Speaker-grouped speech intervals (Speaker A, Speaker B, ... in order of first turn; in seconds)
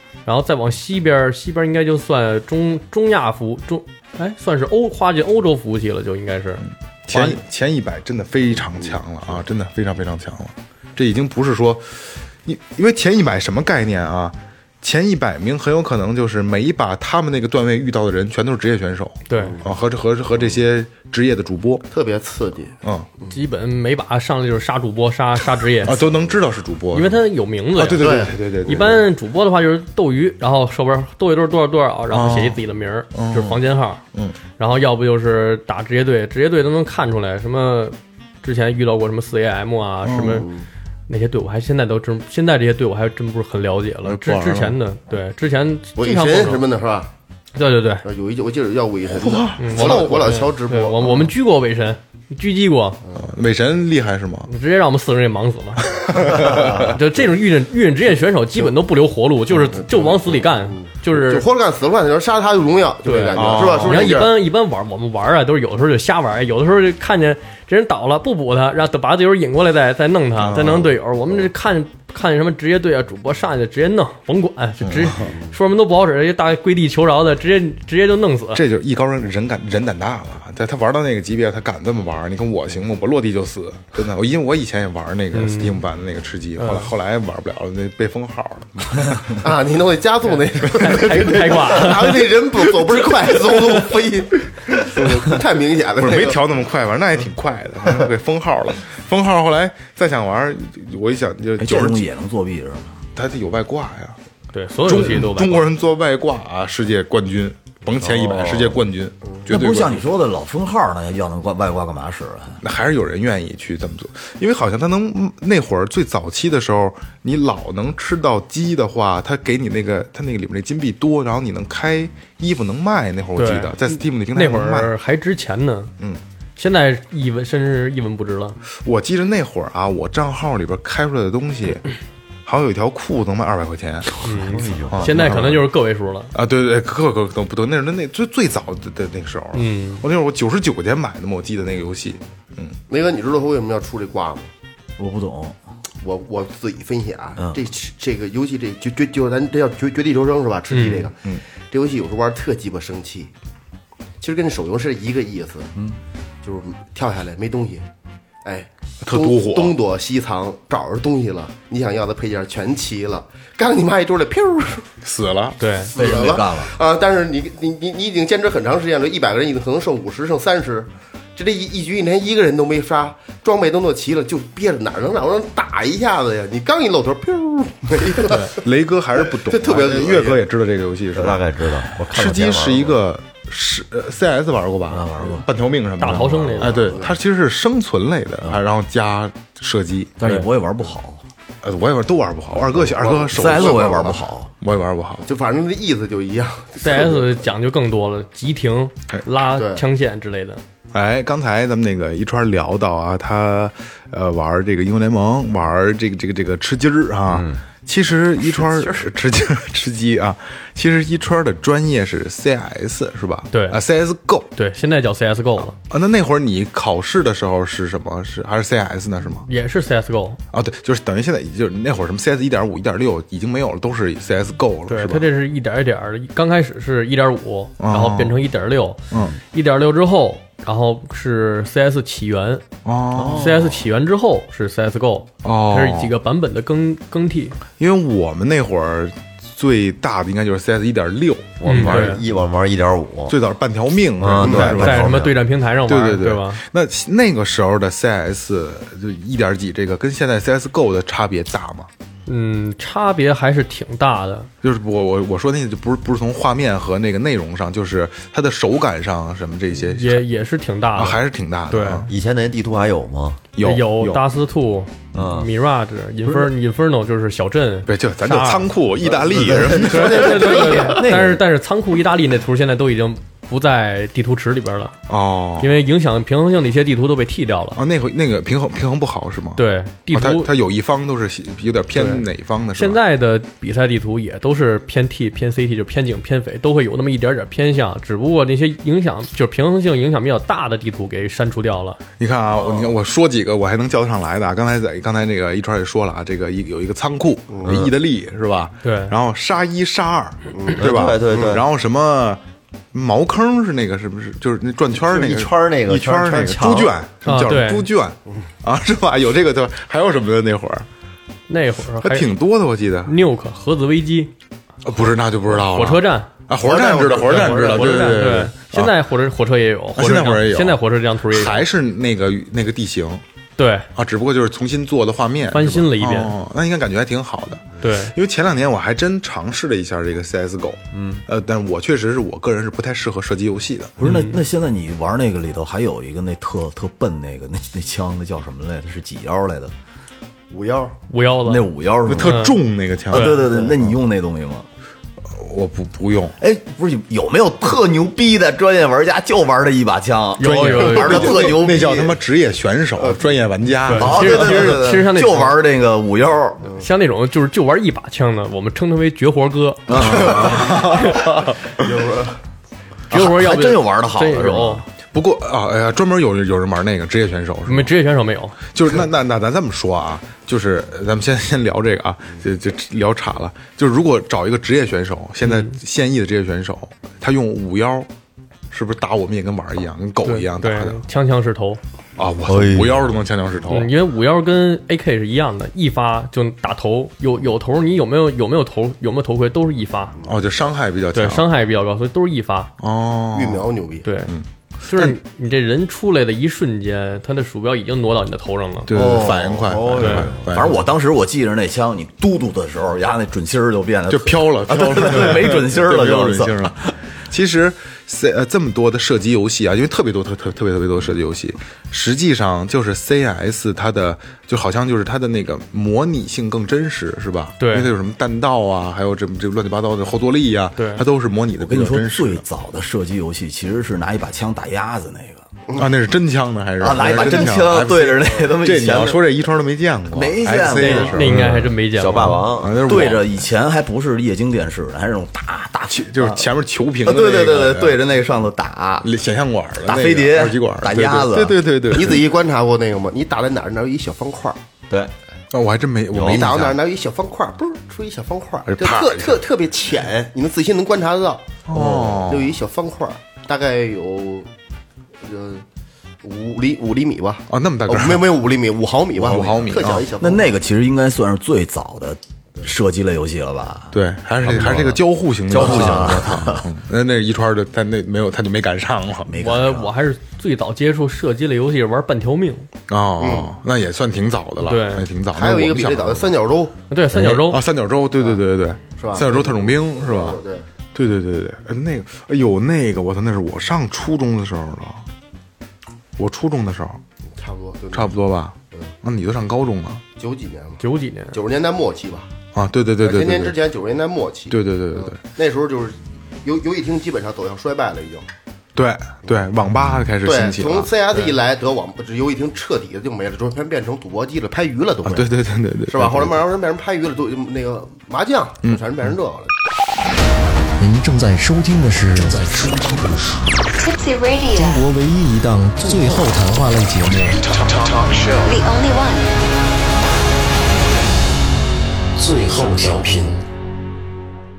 Speaker A: 0.3-7.4, 19.3-19.6, 23.3-26.0, 26.9-34.0, 34.6-40.5, 41.1-46.6, 47.6-48.1, 49.6-53.0, 54.5-61.5, 63.0-78.6, 85.3-85.8, 86.6-86.9, 90.3-92.2, 104.5-105.7, 123.4-125.9, 126.6-128.6, 134.2-136.3, 139.5-140.1, 150.7-151.1, 165.6-165.9, 178.3-178.5, 186.0-187.0, 196.8-200.6, 213.5-213.8, 214.5-215.8, 219.4-220.4, 224.9-232.7, 233.3-237.6, 241.7-242.2, 244.4-246.6, 252.3-254.5, 259.9-262.1, 263.6-268.7, 269.8-275.0, 275.6-277.8, 279.6-280.5, 281.9-292.0, 298.8-299.1, 307.2-307.9, 311.5-312.3, 313.1-314.3, 315.5-316.3, 317.2-321.7, 323.6-323.9, 325.5-326.3, 327.8-328.1, 334.0-334.4, 341.1-342.6, 343.1-343.4, 350.4-351.4, 353.9-355.6, 356.8-361.2, 363.1-364.8, 367.7-368.6, 375.4-375.8, 380.2-381.8, 383.7-390.2, 391.1-392.7, 394.0-394.3, 394.9-398.9, 400.0-400.3, 417.6-417.9, 420.8-421.0, 430.8-432.4, 469.4-472.7, 474.6-475.1, 476.9-477.6, 490.8-491.4
Speaker B: 7.1-21.9, 22.8-23.1, 25.8-27.2, 27.8-29.1, 32.1-32.6, 33.1-33.6, 40.0-40.4, 44.0-44.8, 49.1-50.4, 53.1-54.5, 56.0-57.0, 63.3-64.3, 70.4-71.0, 74.8-75.3, 78.5-89.5, 91.1-91.4, 96.0-102.0, 103.2-104.2, 104.8-110.0, 112.6-124.9, 128.8-131.8, 132.5-134.2, 134.9-135.7, 136.3-142.8, 159.0-159.8, 165.0-165.6, 178.6-181.4, 182.1-190.2, 191.6-194.0, 194.6-195.2, 200.9-214.5, 215.8-219.5, 220.5-225.3, 227.8-228.4, 232.8-233.7, 235.4-236.1, 237.8-242.2, 243.3-251.9, 254.6-260.2, 261.0-262.1, 263.5-264.2, 267.9-271.1, 275.1-275.8, 277.8-283.0, 292.2-302.4, 302.9-310.9, 312.0-313.2, 314.8-318.9, 320.0-323.2, 323.9-334.1, 342.1-343.9, 345.3-346.4, 350.4-354.8, 360.0-361.6, 365.1-367.9, 368.7-378.1, 378.7-381.0, 382.2-383.9, 390.2-391.5, 392.8-393.7, 394.3-395.2, 398.9-400.8, 404.1-422.4, 425.8-433.3, 435.9-438.0, 439.0-442.3, 445.5-446.8, 448.7-449.4, 451.7-452.6, 457.5-458.3, 459.2-460.1, 463.9-469.3, 472.9-476.4, 477.1-480.4, 480.9-485.1, 486.2-487.0, 487.9-490.0, 492.5-493.6, 494.5-495.2, 498.8-500.9, 505.0-506.4
Speaker C: 19.4-19.7, 21.9-23.3, 28.0-28.4, 40.2-40.7, 46.0-47.1, 48.0-51.3, 59.8-64.3, 75.2-75.5, 89.4-96.4, 142.9-144.5, 146.0-153.3, 154.2-155.7, 156.4-157.8, 158.4-164.9, 165.9-178.7, 179.2-180.4, 186.6-187.1, 192.7-194.2, 195.2-197.4, 199.6-199.8, 292.6-292.9, 297.5-297.9, 300.6-301.6, 316.6-318.0, 340.5-341.0, 351.4-352.2, 353.0-353.4, 361.8-362.4, 393.3-394.1, 441.9-444.6, 446.1-451.5, 452.3-454.5, 455.2-455.6, 456.2-460.6, 473.2-473.5, 475.3-476.8, 479.0-480.7, 487.4-488.2, 490.2-490.8, 491.3-492.3, 493.0-498.3, 500.2-505.4, 505.9-509.5
Speaker D: 101.6-103.0, 108.0-108.8, 109.5-112.6, 145.0-145.6, 165.9-166.7, 184.9-185.5, 190.2-191.2, 193.3-194.5, 208.6-208.9, 270.9-271.2, 334.0-339.7, 341.5-342.5, 343.1-344.7, 346.4-352.1, 353.9-356.8, 359.9-361.1, 363.1-364.8, 398.9-407.0, 421.6-425.4, 426.8-429.2, 430.1-431.5, 432.8-436.5, 437.0-439.1, 439.8-442.1, 451.7-452.3, 460.2-466.7, 469.3-469.9
Speaker E: 134.3-135.1, 181.1-183.0, 233.2-233.6, 241.6-243.4, 244.2-245.3, 262.1-263.4, 265.1-265.5, 269.0-271.1, 297.6-297.9, 300.8-301.7, 304.9-306.9, 330.9-331.2, 382.5-383.1, 399.2-400.7, 432.0-432.9, 446.1-446.4, 465.5-466.4
Speaker F: 510.8-513.5, 514.5-518.4, 522.2-523.5
Speaker G: 513.8-514.9, 518.4-519.3